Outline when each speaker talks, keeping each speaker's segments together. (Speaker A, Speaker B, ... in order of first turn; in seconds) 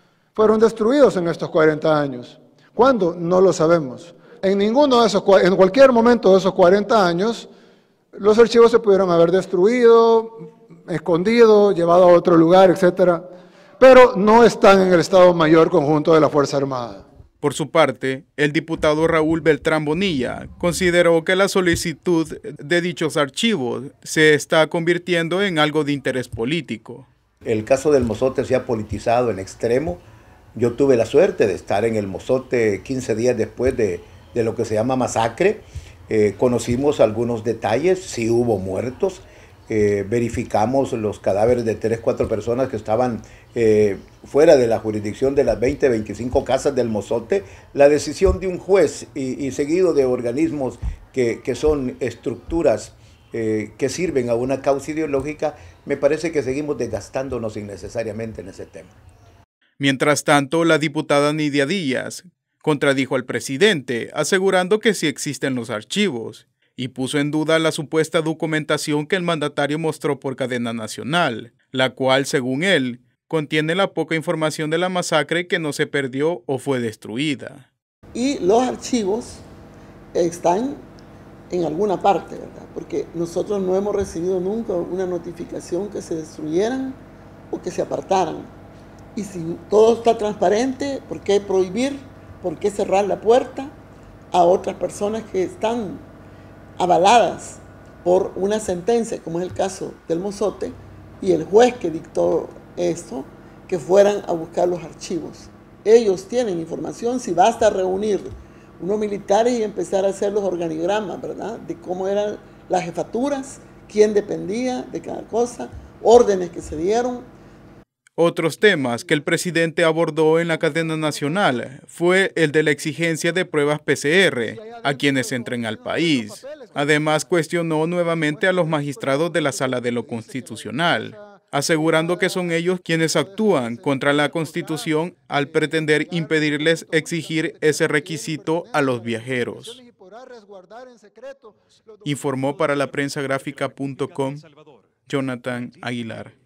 Speaker A: 0.3-7.5, 8.1-13.2, 13.8-17.0, 118.7-119.2, 120.5-121.6, 124.4-127.3, 128.2-142.8
Speaker B: 17.4-27.1, 59.8-77.7, 118.2-139.8, 142.0-144.4, 145.1-146.3
Speaker C: 27.4-30.0, 30.5-58.9
Speaker D: 78.1-79.4, 80.1-80.8, 81.5-87.0, 87.5-88.5, 89.2-93.7, 94.3-96.1, 96.8-108.3, 108.8-117.3